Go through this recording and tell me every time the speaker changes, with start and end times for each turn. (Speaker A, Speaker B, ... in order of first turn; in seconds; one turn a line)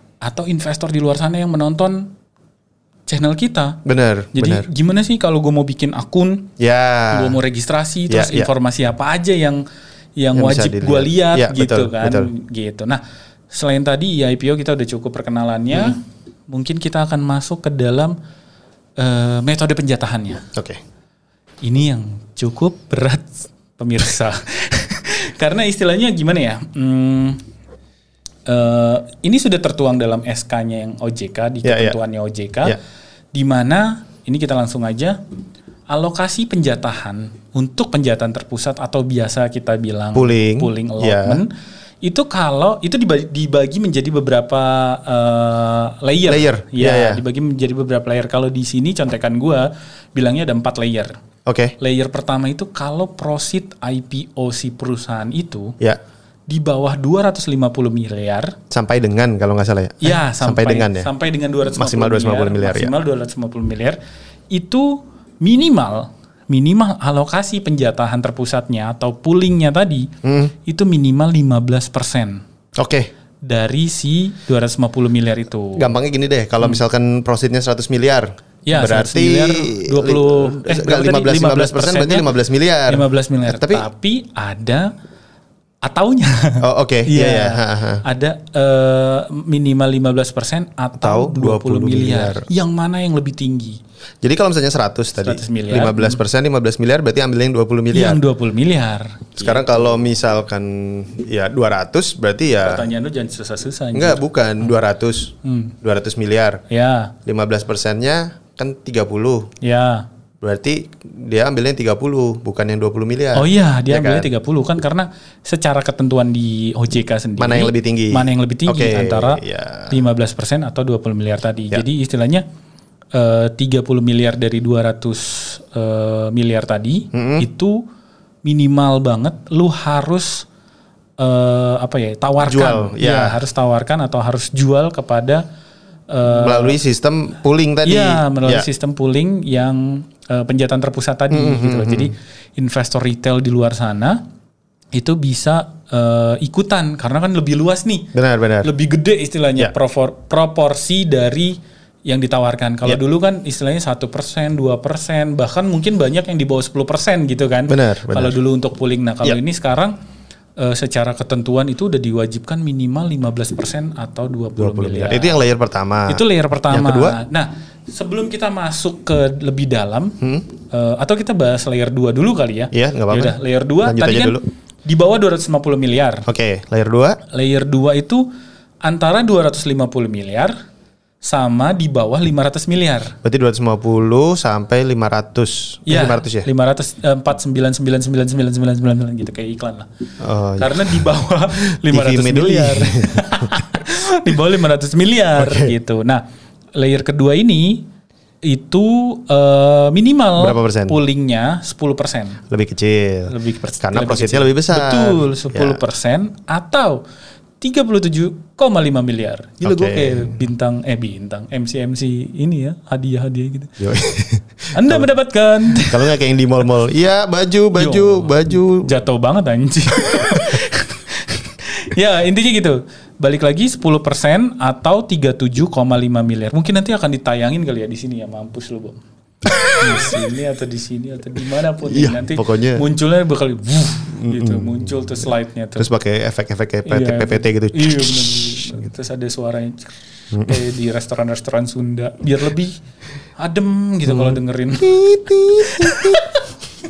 Speaker A: 0.2-2.1
Speaker A: 3.1-3.8
Speaker B: 3.9-4.7
Speaker A: 4.3-6.5
Speaker B: 6.6-7.4
Speaker A: 7.1-9.6
Speaker B: 8.1-8.5
Speaker A: 10.2-18.2
Speaker B: 10.3-12.3
Speaker A: 19.0-20.4
Speaker B: 20.5-20.8
Speaker A: 21.6-27.4
Speaker A: 28.5-32.8
Speaker B: 31.6-32.0
Speaker A: 33.3-35.2
Speaker A: 35.9-41.5
Speaker B: 40.1-41.4
Speaker A: 42.0-51.2
Speaker B: 46.3-47.2
Speaker B: 51.5-51.8
Speaker A: 51.8-55.8
Speaker A: 56.5-58.6
Speaker B: 58.7-61.1
Speaker A: 60.0-64.0
Speaker B: 61.7-62.9
Speaker A: 64.5-70.1
Speaker B: 70.2-70.5
Speaker A: 70.7-72.4
Speaker B: 72.8-73.1
Speaker A: 73.4-75.9
Speaker B: 75.7-83.9
Speaker A: 78.7-82.3
Speaker A: 82.9-84.9
Speaker A: 85.8-93.8
Speaker B: 86.6-88.0
Speaker B: 91.0-92.5
Speaker B: 94.2-98.2
Speaker A: 95.2-96.2
Speaker A: 97.9-100.0
Speaker B: 99.4-102.9
Speaker A: 102.6-104.7
Speaker B: 103.9-106.6
Speaker A: 105.4-105.7
Speaker A: 106.7-107.1
Speaker B: 107.2-109.5
Speaker A: 109.6-110.1
Speaker B: 110.4-114.3
Speaker A: 113.3-122.5
Speaker B: 117.4-120.0
Speaker A: 123.1-127.8
Speaker B: 127.1-127.5
Speaker A: 128.4-130.5
Speaker A: 131.2-135.4
Speaker B: 132.4-133.4
Speaker A: 136.1-136.8
Speaker B: 136.3-138.7
Speaker A: 137.8-144.2
Speaker B: 141.3-142.1
Speaker A: 144.9-160.0
Speaker B: 148.1-148.7
Speaker B: 157.7-158.4
Speaker A: 160.6-165.4
Speaker B: 164.6-167.2
Speaker A: 166.1-176.2
Speaker B: 170.2-170.5
Speaker B: 172.7-174.4
Speaker B: 176.3-177.2
Speaker A: 177.3-178.3
Speaker A: 178.8-180.5
Speaker A: 181.2-183.2
Speaker B: 183.2-186.5
Speaker A: 185.9-189.9
Speaker B: 190.2-191.1
Speaker A: 190.6-196.2
Speaker B: 191.6-193.6
Speaker B: 195.4-195.7
Speaker A: 196.8-197.9
Speaker A: 198.4-202.4
Speaker B: 200.4-201.0
Speaker B: 202.5-205.8
Speaker A: 203.3-207.0
Speaker A: 207.6-213.8
Speaker B: 209.6-210.4
Speaker B: 213.8-215.1
Speaker A: 214.8-216.2
Speaker B: 215.7-218.9
Speaker A: 217.8-229.0
Speaker B: 229.5-230.1
Speaker A: 229.8-235.9
Speaker B: 231.8-232.8
Speaker B: 234.2-238.8
Speaker A: 236.9-242.8
Speaker A: 243.4-246.5
Speaker B: 244.1-246.3